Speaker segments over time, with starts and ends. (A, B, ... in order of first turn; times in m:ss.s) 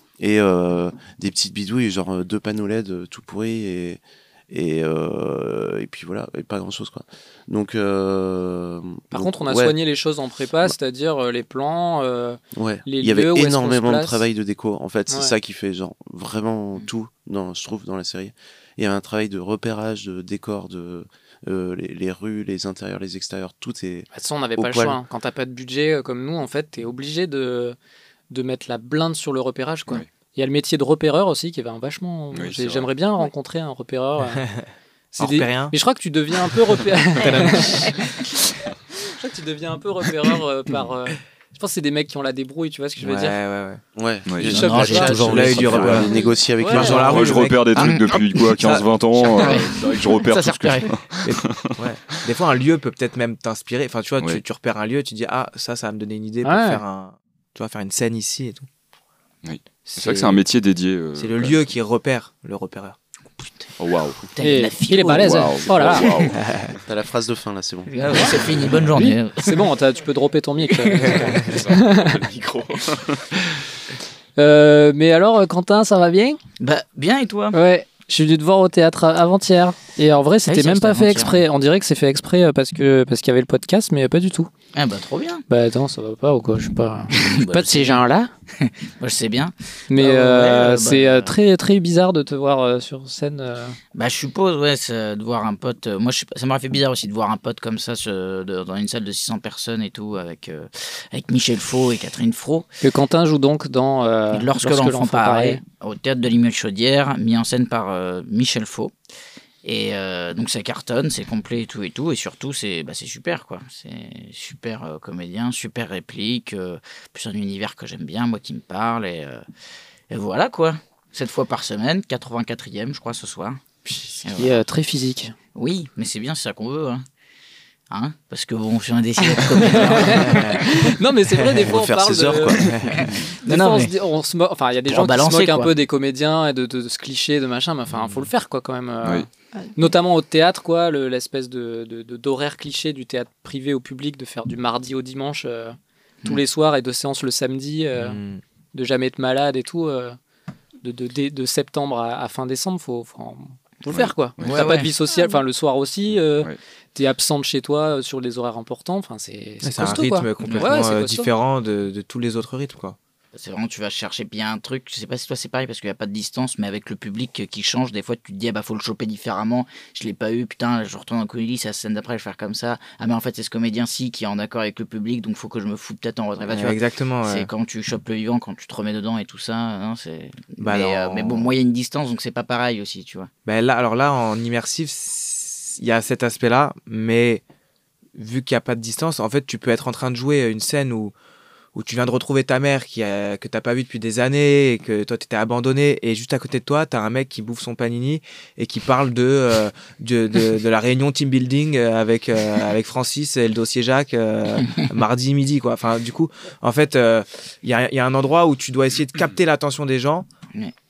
0:00.2-0:09.8 A
0:09.1-0:14.2 B
0:12.5-0:25.0 A
0:15.1-0:15.3 B
0:24.1-0:27.8 B
0:28.3-0:34.4 B
0:32.3-0:32.9 C
0:35.1-0:38.0 B
0:35.2-0:35.7 D
0:37.2-0:38.3 D
0:39.1-0:43.4 B
0:43.0-0:43.8 D
0:44.0-0:47.6 A
0:44.3-0:44.6 C
0:44.4-0:47.3 B
0:44.6-0:46.1 E
0:44.8-0:46.1 D
0:46.6-0:49.7 D
0:46.8-0:51.7 C
0:49.4-0:51.0 E
0:51.2-0:58.6 D
0:56.4-0:56.8 B
0:59.4-1:01.7 C
0:59.9-1:00.4 E
1:01.2-1:03.0 D
1:03.4-1:03.7 E
1:03.8-1:04.2 C
1:04.3-1:06.3 E
1:04.4-1:06.1 B
1:05.1-1:06.4 C
1:06.3-1:06.7 D
1:06.8-1:08.7 A
1:07.9-1:09.7 E
1:08.1-1:08.4 B
1:09.0-1:12.2 B
1:11.2-1:11.5 D
1:11.3-1:13.2 C
1:14.4-1:16.4 B
1:16.6-1:17.6 E
1:17.5-1:24.5 B
1:20.4-1:21.4 E
1:24.7-1:25.4 E
1:25.5-1:28.3 B
1:27.1-1:28.0 E
1:28.6-1:31.3 E
1:29.9-1:33.8 B
1:33.9-1:42.7 E
1:42.8-1:45.6 B
1:44.3-1:48.9 E
1:49.6-1:59.4 E
2:00.1-2:03.6 E
2:04.2-2:04.6 E
2:04.3-2:05.3 B
2:05.5-2:07.0 E
2:07.9-2:10.6 E
2:09.4-2:12.6 B
2:09.7-2:10.8 D
2:11.3-2:11.6 D
2:11.6-2:12.7 A
2:12.6-2:13.1 D
2:13.0-2:13.9 E
2:13.4-2:28.2 B
2:14.9-2:15.7 E
2:28.0-2:28.4 D
2:28.7-2:30.2 B
2:30.8-2:41.3 B
2:33.9-2:34.8 C
2:34.4-2:34.9 E
2:39.6-2:43.0 D
2:40.4-2:40.8 E
2:43.3-3:03.3 E
2:56.4-2:57.5 D
3:00.6-3:01.5 D
3:03.4-3:07.4 D
3:08.2-3:11.1 D
3:11.7-3:30.2 D